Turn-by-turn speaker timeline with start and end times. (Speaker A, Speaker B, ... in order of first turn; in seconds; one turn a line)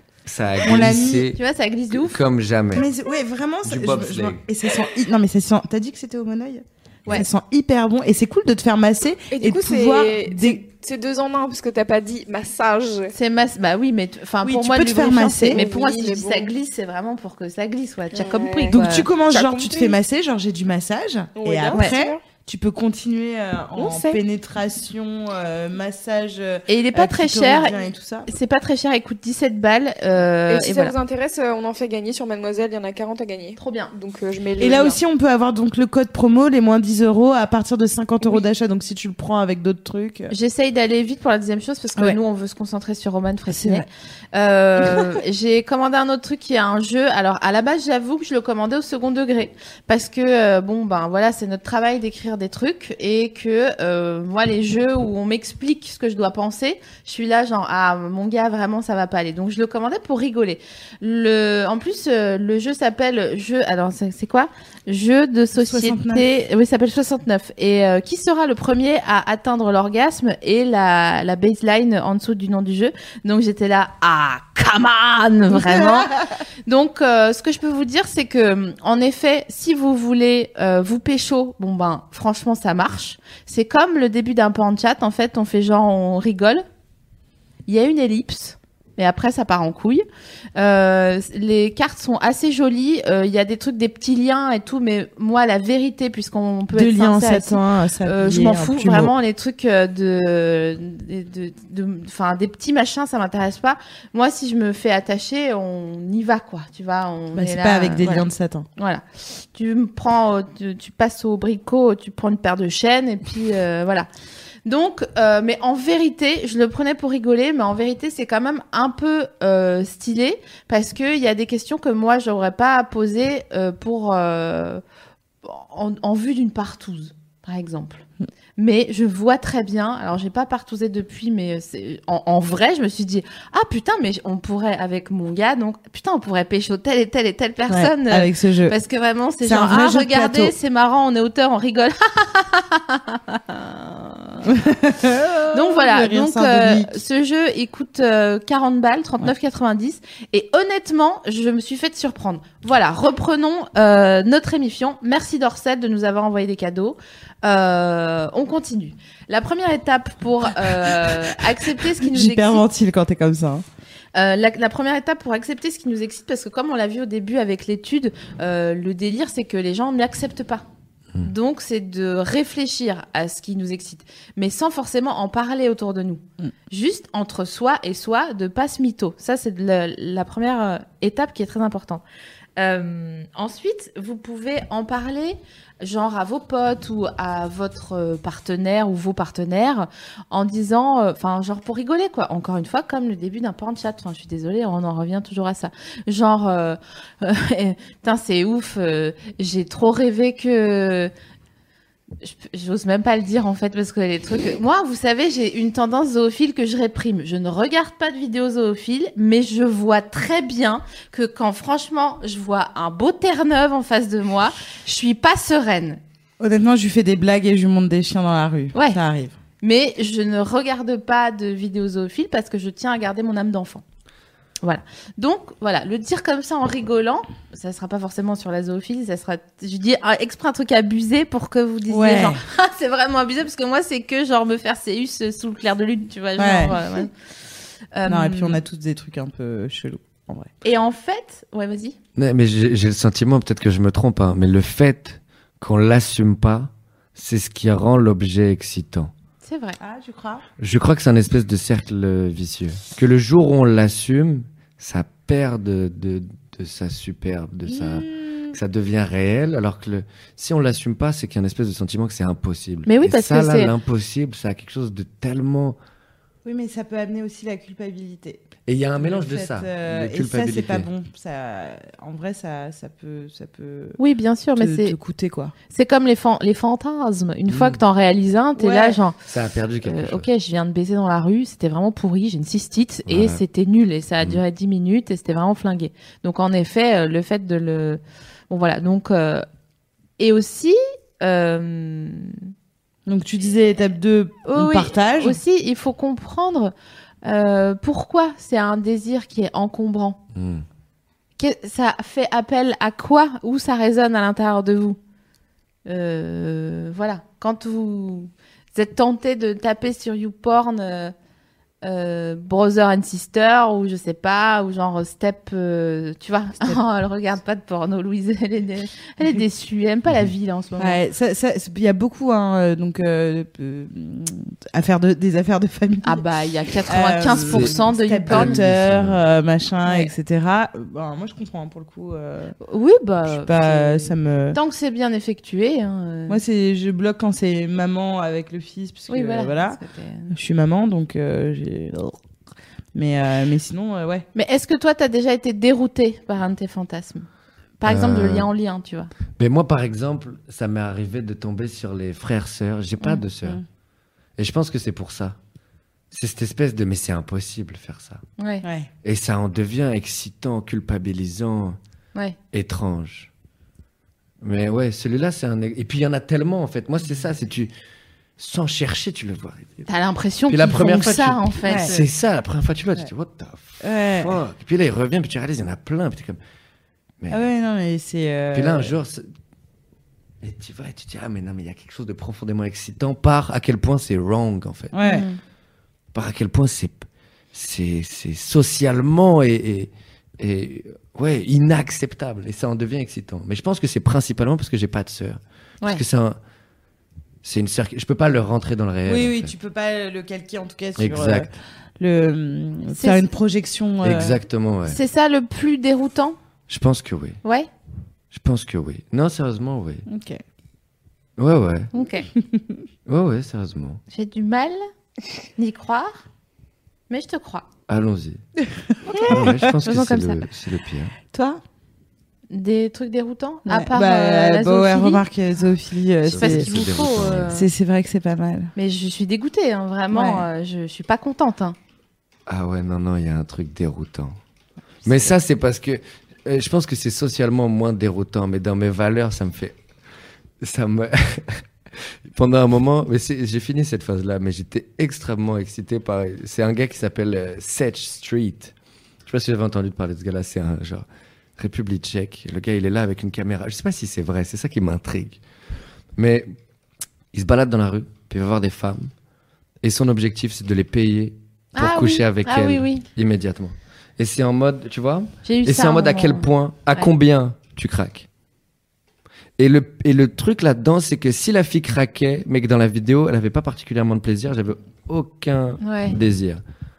Speaker A: 0.2-1.4
Speaker B: 0.6-1.3
Speaker C: 1.4-2.2
Speaker A: 1.9-2.9
Speaker B: 2.7-10.6
Speaker A: 3.6-4.4
Speaker D: 9.3-13.1
Speaker C: 13.1-19.1
Speaker B: 14.4-15.6
Speaker D: 15.5-16.5
Speaker D: 18.1-20.0
Speaker B: 18.7-28.3
Speaker D: 21.4-22.2
Speaker C: 21.7-22.0
Speaker D: 23.8-24.2
Speaker C: 26.7-30.9
Speaker D: 30.5-35.0
Speaker C: 33.6-33.9
Speaker B: 34.6-40.3
Speaker C: 40.3-76.1
Speaker B: 43.5-43.9
Speaker B: 65.5-66.2
Speaker B: 75.5-76.2
Speaker C: 76.7-86.6
Speaker C: 87.7-90.0
Speaker C: 90.6-108.2
Speaker B: 96.7-99.1
Speaker B: 107.3-108.7
Speaker C: 108.8-114.1
Speaker C: 114.6-124.8
Speaker C: 125.4-128.0
Speaker C: 128.6-144.5
Speaker B: 137.7-138.8
Speaker B: 139.4-140.5
Speaker B: 144.4-147.0
Speaker C: 145.5-162.6
Speaker B: 160.8-163.6
Speaker C: 164.1-170.6
Speaker C: 171.2-182.0
Speaker C: 182.6-201.1
Speaker C: 202.2-216.0
Speaker B: 216.4-219.4
Speaker C: 218.7-219.0
Speaker C: 219.6-223.8
Speaker C: 224.6-237.1
Speaker B: 231.9-232.4
Speaker B: 236.4-237.0
Speaker C: 237.9-238.6
Speaker B: 238.1-240.5
Speaker C: 240.6-241.9
Speaker A: 242.2-249.1
Speaker C: 249.4-249.8
Speaker B: 249.8-250.4
Speaker A: 250.6-265.8
Speaker B: 257.6-258.6
Speaker C: 262.9-263.7
Speaker B: 266.4-274.0
Speaker A: 268.6-270.9
Speaker C: 274.0-275.0
Speaker B: 274.6-275.5
Speaker C: 275.7-279.1
Speaker A: 277.5-277.8
Speaker B: 278.6-279.0
Speaker A: 279.3-280.3
Speaker C: 279.8-289.4
Speaker A: 283.1-283.4
Speaker C: 290.2-292.4
Speaker B: 293.1-295.4
Speaker C: 294.5-296.7
Speaker C: 297.2-300.2
Speaker A: 300.3-300.6
Speaker C: 301.4-305.0
Speaker C: 305.9-311.1
Speaker C: 311.8-321.0
Speaker B: 320.8-326.2
Speaker C: 326.0-328.6
Speaker B: 326.9-332.5
Speaker A: 327.5-327.7
Speaker A: 328.3-329.2
Speaker C: 329.9-330.1
Speaker C: 332.6-336.4
Speaker B: 333.3-334.6
Speaker B: 336.3-342.2
Speaker C: 339.1-340.3
Speaker B: 342.9-344.2
Speaker C: 344.3-347.3
Speaker C: 347.8-349.1
Speaker A: 347.8-348.5
Speaker A: 349.4-353.6
Speaker A: 354.4-355.4
Speaker A: 356.1-358.2
Speaker C: 358.4-358.6
Speaker B: 358.6-358.9
Speaker A: 359.0-361.8
Speaker A: 362.5-363.3
Speaker A: 364.4-367.7
Speaker A: 368.4-369.9
Speaker C: 369.9-371.9
Speaker A: 370.5-376.4
Speaker B: 371.7-372.1
Speaker B: 373.8-374.4
Speaker B: 377.3-378.9
Speaker A: 378.5-379.2
Speaker A: 380.4-384.9
Speaker B: 384.9-385.2
Speaker C: 385.0-385.4
Speaker A: 386.1-396.4
Speaker A: 397.4-399.5
Speaker B: 399.1-404.4
Speaker A: 401.0-401.5
Speaker C: 402.9-403.3
Speaker A: 404.0-405.0
Speaker C: 404.9-406.4
Speaker A: 406.7-407.4
Speaker C: 407.4-407.7
Speaker A: 408.3-410.0
Speaker B: 410.1-410.4
Speaker A: 411.4-411.9
Speaker C: 411.9-412.3
Speaker A: 413.1-414.0
Speaker C: 414.1-414.8
Speaker C: 415.6-416.2
Speaker C: 417.1-417.6
Speaker A: 417.9-418.4
Speaker B: 419.1-419.7
Speaker C: 419.1-420.4
Speaker A: 419.3-421.1
Speaker B: 421.3-421.6
Speaker C: 422.5-425.2
Speaker B: 423.6-426.9
Speaker A: 426.2-427.6
Speaker C: 426.3-427.7
Speaker B: 427.5-428.7
Speaker C: 428.8-431.8
Speaker B: 430.1-430.4
Speaker A: 432.5-434.4
Speaker A: 435.0-439.7
Speaker A: 440.6-441.6
Speaker A: 442.3-448.7
Speaker A: 449.3-455.4
Speaker A: 456.2-456.5
Speaker A: 457.3-459.1
Speaker A: 459.8-468.3
Speaker C: 461.7-463.0
Speaker C: 465.4-467.1
Speaker A: 469.6-476.6
Speaker C: 475.8-476.1